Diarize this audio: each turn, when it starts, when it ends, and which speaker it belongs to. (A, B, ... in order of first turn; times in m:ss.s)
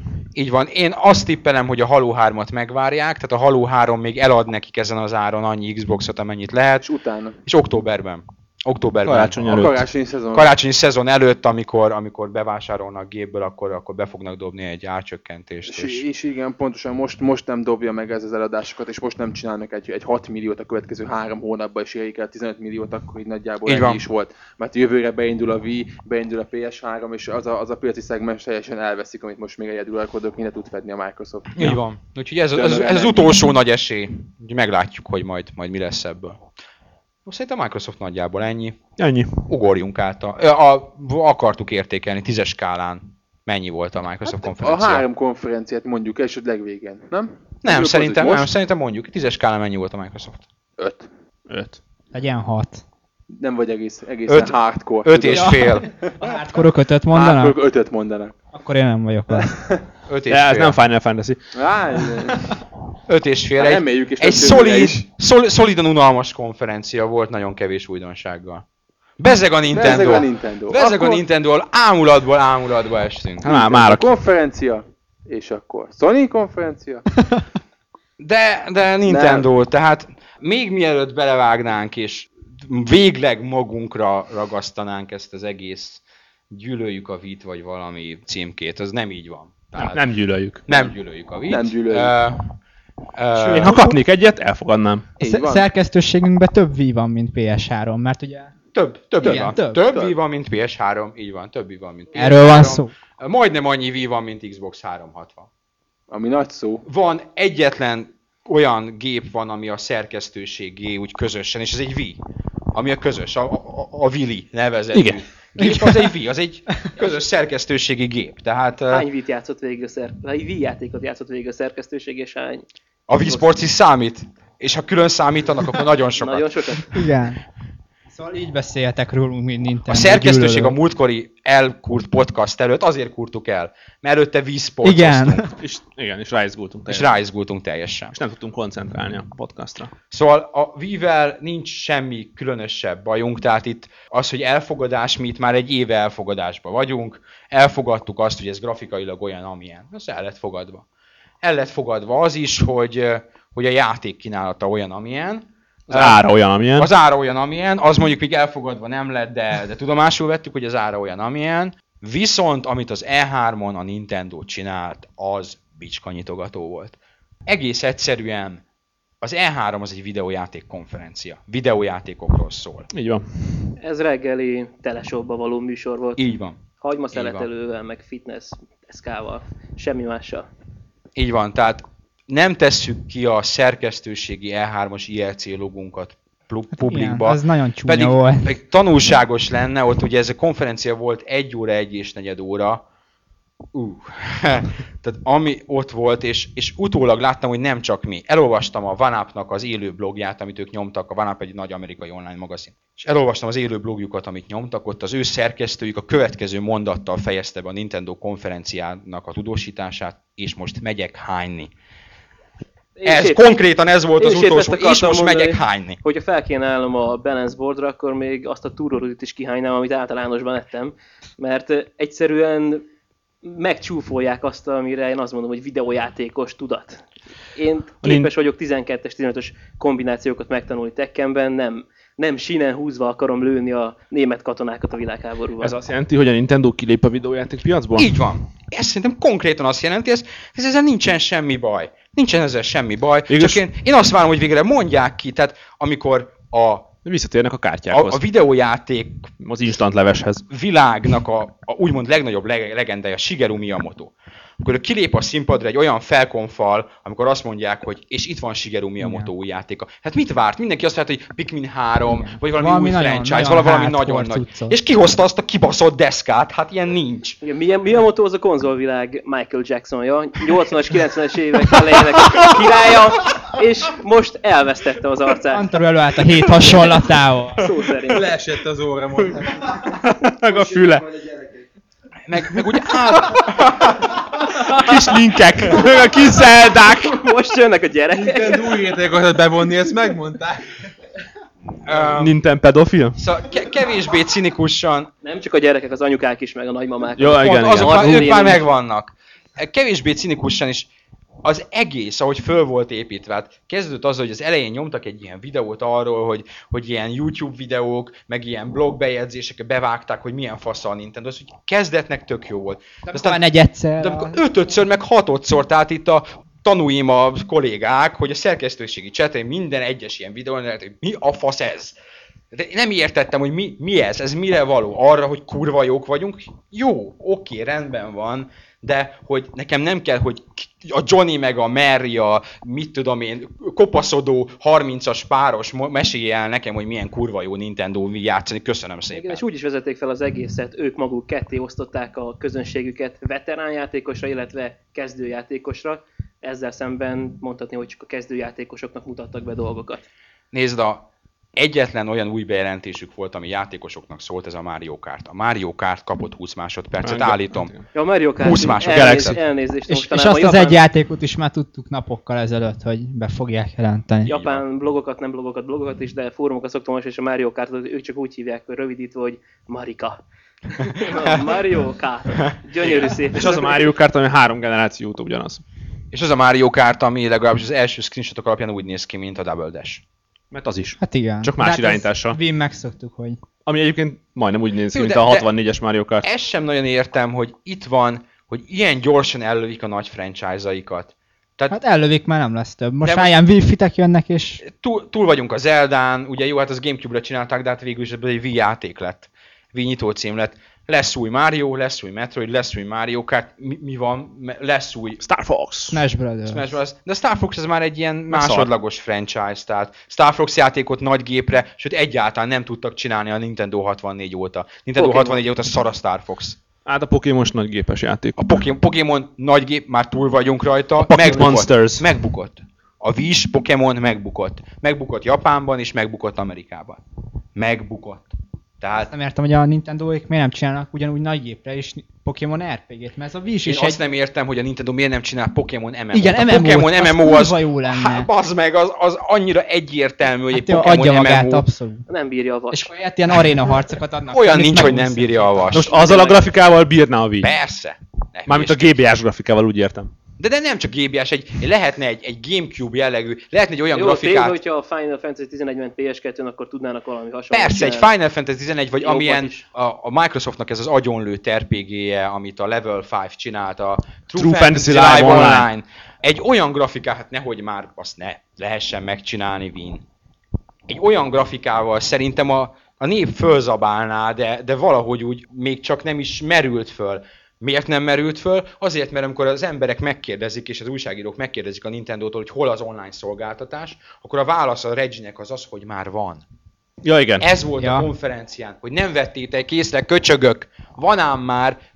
0:00.3-0:06.9 A
0:06.8-0:07.4 B
0:07.4-0:09.4 A
0:09.0-0:09.8 C
0:09.4-0:10.5 B
0:10.3-0:16.0 A
0:15.7-0:31.6 B
0:23.6-0:24.0 A
0:31.6-0:36.4 A
0:32.5-0:33.4 B
0:37.2-0:38.9 A
0:39.0-0:39.5 C
0:39.4-0:45.0 A
0:44.3-0:48.5 B
0:47.6-0:50.4 A
0:50.8-0:51.1 B
0:51.5-0:51.8 C
0:52.1-0:52.8 D
0:53.3-0:56.3 B
0:54.3-0:55.8 A
0:55.3-0:57.6 D
0:57.1-0:58.3 B
0:58.5-0:59.6 D
0:59.3-0:59.8 B
1:00.1-1:00.8 A
1:00.3-1:01.5 C
1:01.5-1:02.5 B
1:03.1-1:08.6 A
1:03.6-1:05.0 B
1:09.2-1:13.5 A
1:09.7-1:11.2 B
1:13.4-1:14.1 C
1:13.4-1:17.1 B
1:18.2-1:30.1 A
1:19.0-1:19.5 B
1:29.7-1:30.8 C
1:30.6-1:32.6 A
1:31.5-1:32.2 B
1:33.1-1:33.8 A
1:33.3-1:34.0 D
1:33.5-1:35.1 C
1:35.2-1:35.7 B
1:35.2-1:38.5 D
1:38.7-1:45.5 A
1:39.2-1:40.1 B
1:39.2-1:39.8 D
1:42.2-1:42.9 D
1:46.1-1:46.8 B
1:46.8-1:52.2 A
1:52.7-1:59.0 A
1:54.9-1:55.2 C
1:55.6-1:56.0 D
1:58.9-2:02.6 E
2:03.1-2:07.0 A
2:03.2-2:03.5 E
2:06.1-2:06.9 E
2:06.9-2:07.4 D
2:08.1-2:10.8 D
2:09.9-2:15.5 A
2:14.8-2:15.5 D
2:15.6-2:17.2 C
2:16.9-2:18.1 A
2:18.1-2:19.9 C
2:20.1-2:30.8 A
2:31.4-2:48.6 A
2:35.9-2:36.9 C
2:49.2-2:52.9 A
2:52.9-2:53.7 C
2:53.8-3:00.5 E
2:56.2-2:56.6 A
2:57.1-2:57.5 A
3:01.2-3:12.8 A
3:06.7-3:08.5 D
3:13.7-3:31.7 A
3:33.0-3:33.4 E
3:33.0-3:36.0 A
3:34.2-3:42.8 E
3:43.4-3:47.0 E
3:47.5-3:55.7 E
3:48.0-3:48.3 C
3:55.6-3:58.3 C
3:58.0-4:07.0 A
4:03.3-4:03.6 C
4:07.0-4:08.2 C
4:07.9-4:09.3 A
4:09.4-4:10.4 C
4:10.5-4:27.4 A
4:19.0-4:19.3 D
4:22.1-4:24.8 D
4:27.4-4:35.7 E
4:32.2-4:32.5 C
4:35.5-4:37.7 D
4:37.6-4:38.3 E
4:38.1-4:40.0 B
4:39.8-4:41.1 C
4:40.5-4:41.6 B
4:42.3-4:44.2 A
4:44.3-4:47.2 C
4:47.0-4:48.9 E
4:48.2-4:50.7 B
4:51.8-4:52.4 A
4:52.1-4:53.2 C
4:53.2-4:55.1 A
4:55.2-4:58.6 E
4:57.2-4:58.6 C
4:57.4-5:00.9 A
5:01.4-5:13.4 A
5:13.0-5:14.4 D
5:14.0-5:21.9 A
5:22.5-5:39.4 A
5:39.1-5:50.0 E
5:50.5-5:57.7 A
5:57.0-5:57.9 C
5:57.9-6:00.8 E
5:58.4-5:59.4 A
5:58.5-5:59.4 C
5:59.9-6:04.3 D
6:04.2-6:04.6 A
6:04.2-6:10.2 E
6:10.8-6:13.8 E
6:12.5-6:13.2 A
6:13.3-6:15.6 C
6:16.1-6:20.0 A
6:20.5-6:22.4 C
6:21.0-6:23.4 D
6:23.6-6:26.3 C
6:24.9-6:25.5 A
6:26.2-6:31.7 A
6:31.7-6:34.6 D
6:33.0-6:33.3 A
6:34.6-6:45.2 A
6:45.2-6:46.0 C
6:45.9-6:46.7 D
6:46.5-6:56.6 A
6:48.3-6:48.7 C
6:55.0-6:55.4 E
6:56.8-6:58.4 C
6:58.4-7:07.0 A
7:01.0-7:02.1 C
7:07.5-7:08.3 A
7:08.8-7:09.1 A
7:09.0-7:14.0 D
7:13.6-7:21.7 A
7:16.1-7:18.3 D
7:20.5-7:22.0 D
7:22.1-7:22.9 E
7:22.7-7:25.8 D
7:24.3-7:26.3 A
7:25.7-7:27.5 C
7:25.9-7:26.4 E
7:27.4-7:29.0 A
7:28.5-7:30.1 C
7:30.4-7:34.6 A
7:33.9-7:38.1 E
7:37.5-7:50.0 A
7:39.0-7:39.6 E
7:44.4-7:45.7 C
7:50.9-8:06.4 A
8:07.0-8:07.5 C
8:07.4-8:11.8 A
8:07.8-8:08.1 D